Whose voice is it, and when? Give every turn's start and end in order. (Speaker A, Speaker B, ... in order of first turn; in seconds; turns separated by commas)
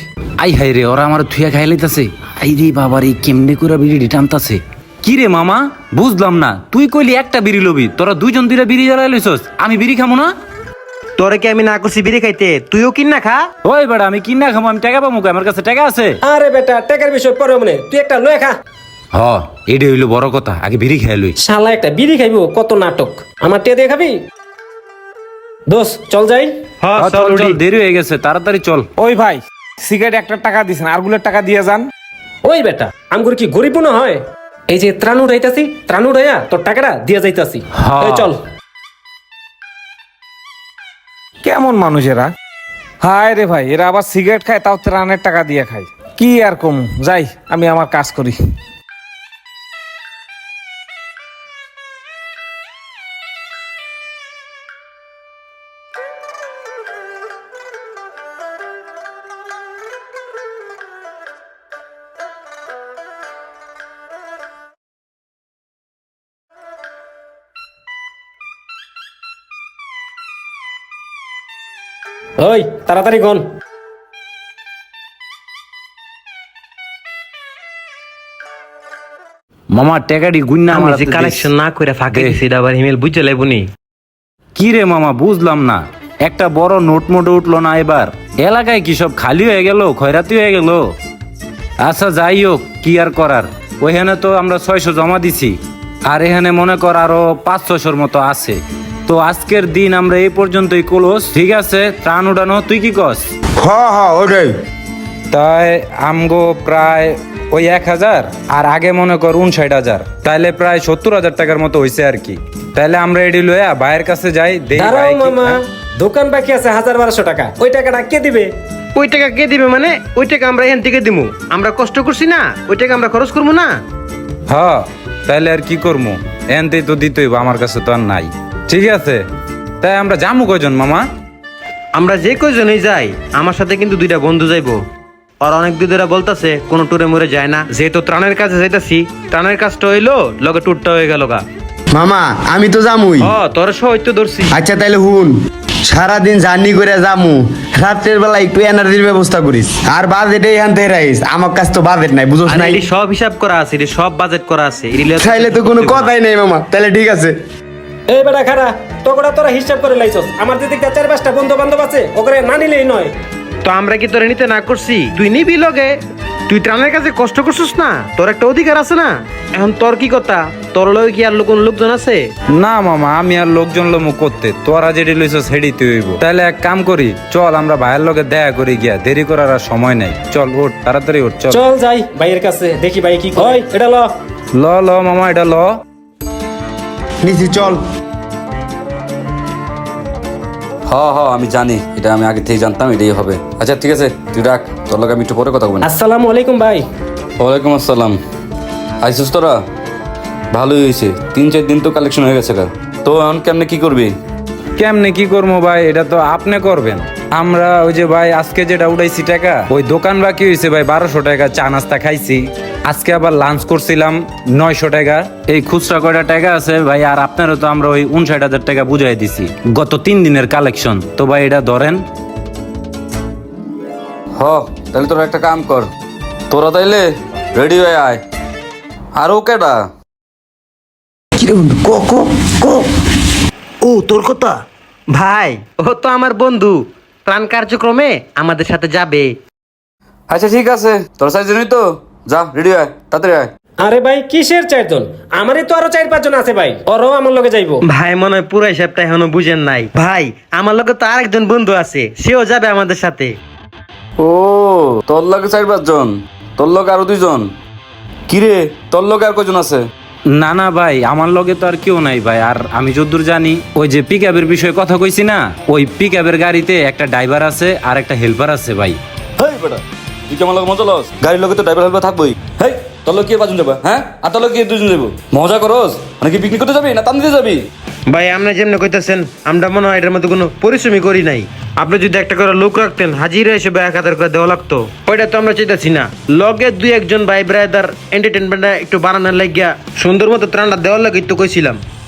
Speaker A: 0.4-10.3, Speaker B: 11.2-13.5, Speaker A: 13.6-16.2, Speaker C: 16.2-18.5, Speaker A: 19.1-21.4, Speaker C: 21.4-24.2, Speaker C: 25.7-26.5, Speaker B: 26.8-27.6, Speaker A: 27.0-28.9, Speaker D: 29.0-31.9, Speaker C: 32.5-38.4, Speaker A: 37.8-38.3, Speaker D: 41.4-42.3, Speaker D: 43.0-48.4, Speaker C: 72.4-73.5, Speaker A: 79.7-81.5, Speaker B: 80.7-83.7, Speaker A: 84.5-90.9, Speaker A: 91.8-103.3, Speaker E: 103.6-104.5, Speaker A: 105.3-115.6, Speaker C: 114.8-118.5, Speaker B: 119.0-123.7, Speaker A: 124.5-129.2, Speaker A: 129.8-131.1, Speaker B: 131.9-134.8, Speaker B: 135.4-141.4, Speaker E: 141.9-143.3, Speaker B: 143.2-144.6, Speaker E: 144.5-145.3, Speaker E: 145.9-152.9, Speaker B: 152.5-156.1, Speaker E: 155.2-157.3, Speaker C: 158.1-163.1, Speaker B: 163.6-165.9, Speaker B: 166.5-172.3, Speaker A: 172.6-181.6, Speaker C: 181.5-184.1, Speaker A: 184.6-185.8, Speaker E: 187.2-187.8, Speaker F: 190.9-195.8, Speaker C: 195.8-196.8, Speaker F: 197.4-198.2, Speaker F: 199.0-199.6, Speaker F: 200.5-204.1, Speaker A: 204.8-222.0, Speaker F: 224.4-225.9, Speaker F: 226.5-228.2, Speaker F: 229.2-229.9, Speaker E: 231.4-232.9, Speaker B: 233.8-234.6, Speaker B: 235.1-239.3, Speaker F: 240.3-243.5, Speaker C: 243.8-247.8, Speaker B: 247.9-253.3, Speaker F: 254.2-257.5, Speaker F: 258.3-259.8, Speaker A: 260.3-269.0, Speaker F: 269.4-277.6, Speaker B: 278.1-291.8